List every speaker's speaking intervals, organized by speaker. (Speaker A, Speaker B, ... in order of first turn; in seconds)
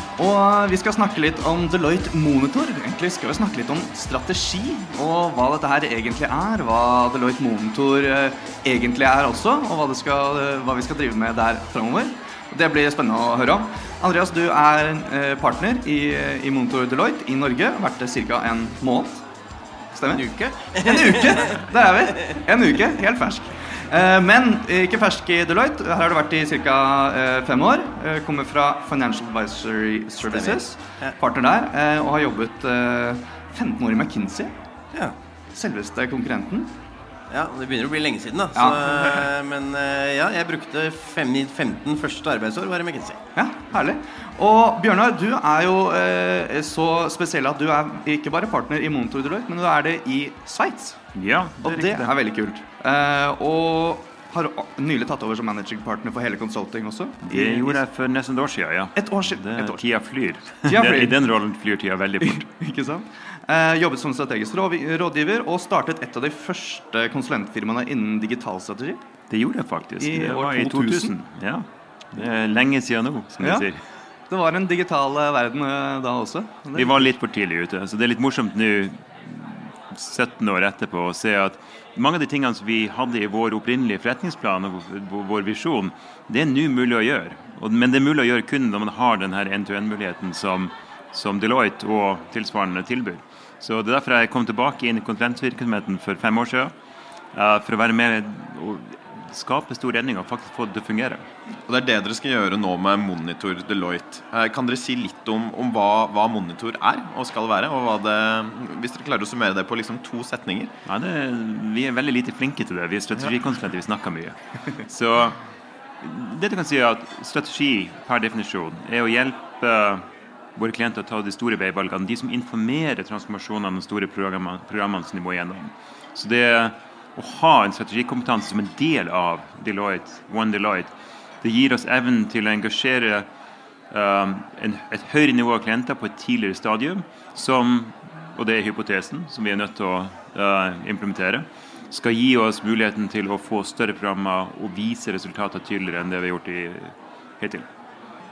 Speaker A: 0.2-19.2, 19.9-20.2, 20.8-34.5, 35.5-36.7, 38.5-39.3, 43.4-51.0, 51.6-57.8, 59.0-59.8, 60.6-61.2, 62.2-69.0, 70.0-71.1, 74.3-77.1
Speaker B: 20.1-21.5, 30.2-31.1, 37.3-43.2
Speaker C: 51.1-52.1, 57.3-62.4, 69.3-73.8, 76.7-96.7, 97.3-101.2, 110.8-115.4, 116.0-120.0, 120.5-130.9, 131.4-133.2, 133.9-147.7
Speaker D: 101.7-110.7